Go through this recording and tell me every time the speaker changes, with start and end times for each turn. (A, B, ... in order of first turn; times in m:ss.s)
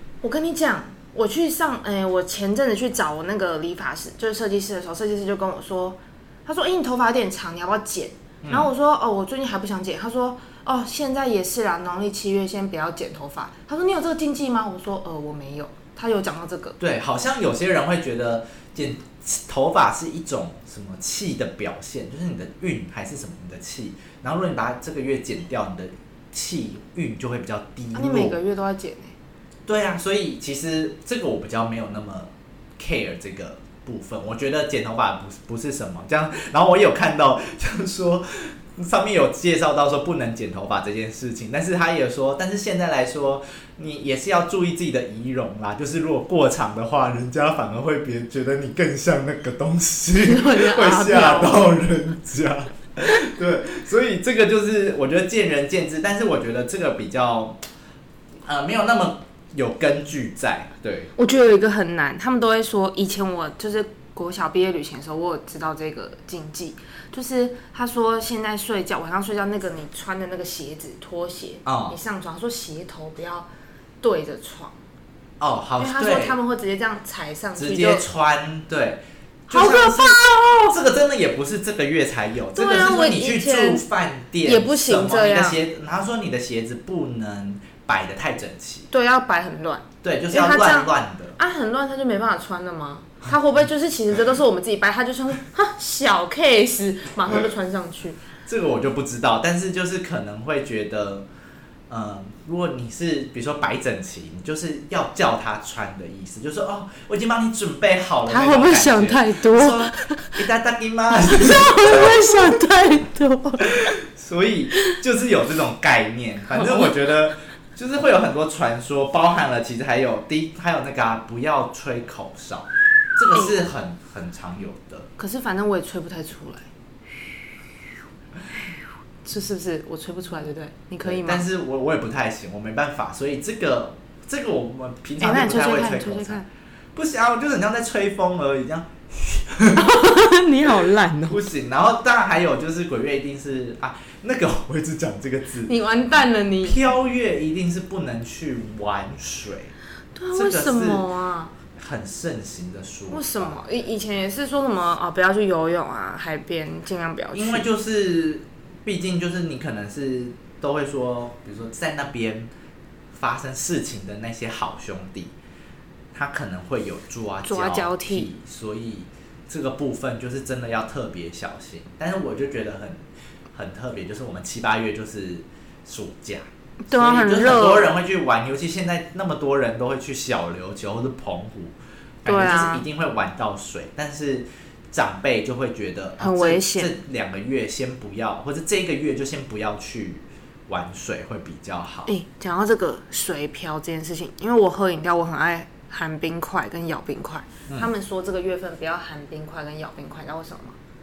0:00.2-0:16.8 A
0:08.4-0:08.7 B
0:16.8-0:28.4 B
0:27.9-0:29.2 A
0:29.6-0:57.6 B
0:50.2-0:51.7 A
0:58.4-1:01.1 B
1:01.2-1:13.5 A
1:11.6-1:12.0 B
1:14.0-1:14.8 A
1:15.4-1:16.4 B
1:15.8-1:18.0 A
1:17.6-1:28.9 B
1:19.5-1:20.8 A
1:22.5-1:23.8 A
1:24.4-1:25.6 A
1:28.9-1:38.2 A
1:30.0-1:31.4 B
1:38.4-1:41.2 B
1:41.9-1:52.3 B
1:48.3-1:50.4 A
1:51.2-1:53.9 A
1:53.9-2:05.1 B
1:56.5-1:56.9 A
2:05.2-2:06.7 A
2:09.2-2:11.4 A
2:11.0-2:16.4 B
2:15.2-2:16.4 A
2:16.9-2:19.9 B
2:19.7-2:21.4 A
2:21.3-2:29.7 B
2:25.7-2:26.8 A
2:30.1-2:31.5 A
2:30.3-2:31.0 B
2:31.7-2:33.6 B
2:33.1-2:37.7 A
2:37.3-2:42.5 B
2:43.1-2:45.3 B
2:46.1-3:12.1 B
2:47.4-2:48.3 A
2:56.8-2:57.9 A
3:02.2-3:02.8 A
3:06.2-3:06.9 A
3:12.0-3:20.8 A